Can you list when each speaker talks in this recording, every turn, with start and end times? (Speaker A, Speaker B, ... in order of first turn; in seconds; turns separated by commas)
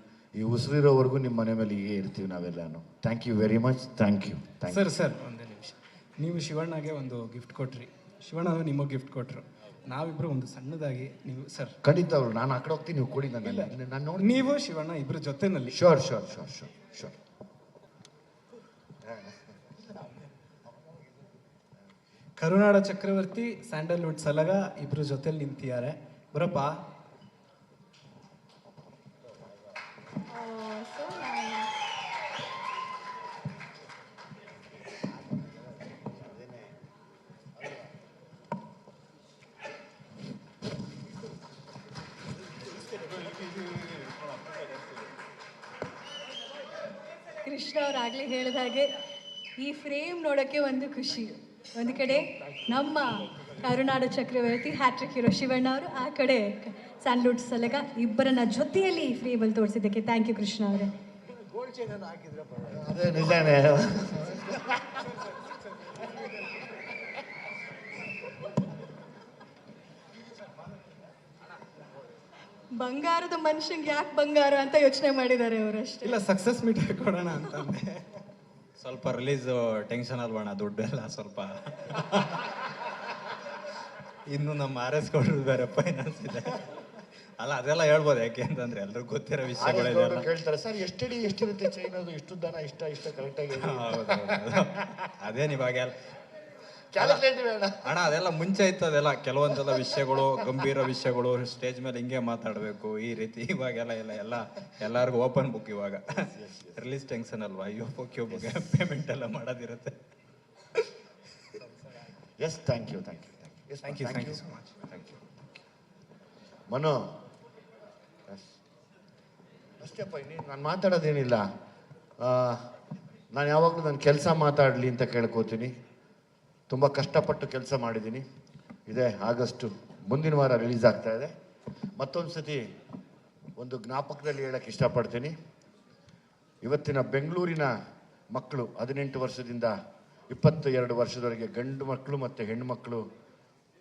Speaker A: 0.3-4.9, Speaker B: 4.7-11.8, Speaker A: 11.8-14.5, Speaker B: 13.5-15.8, Speaker A: 15.7-17.1, Speaker A: 19.0-19.4, Speaker B: 22.4-26.8, Speaker C: 30.3-31.7, Speaker A: 36.2-36.7, Speaker C: 47.4-48.9, Speaker C: 49.6-60.9, Speaker B: 61.9-62.2, Speaker A: 62.6-65.1, Speaker C: 72.7-76.2, Speaker B: 76.0-78.1, Speaker D: 78.8-82.7, Speaker D: 84.3-86.8, Speaker D: 87.4-90.3, Speaker A: 89.6-95.1, Speaker D: 93.6-96.0, Speaker A: 96.9-98.0, Speaker D: 97.0-97.2, Speaker D: 97.8-110.0, Speaker A: 106.1-106.8, Speaker A: 108.3-108.6, Speaker A: 112.4-115.4, Speaker B: 113.8-114.8, Speaker A: 116.7-117.0, Speaker A: 118.3-118.5, Speaker A: 119.8-121.4, Speaker A: 122.2-122.7, Speaker A: 123.3-125.7, Speaker A: 126.7-128.2, Speaker A: 128.9-131.3, Speaker A: 132.0-132.6, Speaker A: 133.6-135.3, Speaker A: 136.6-137.7, Speaker A: 138.3-139.7, Speaker A: 140.3-143.0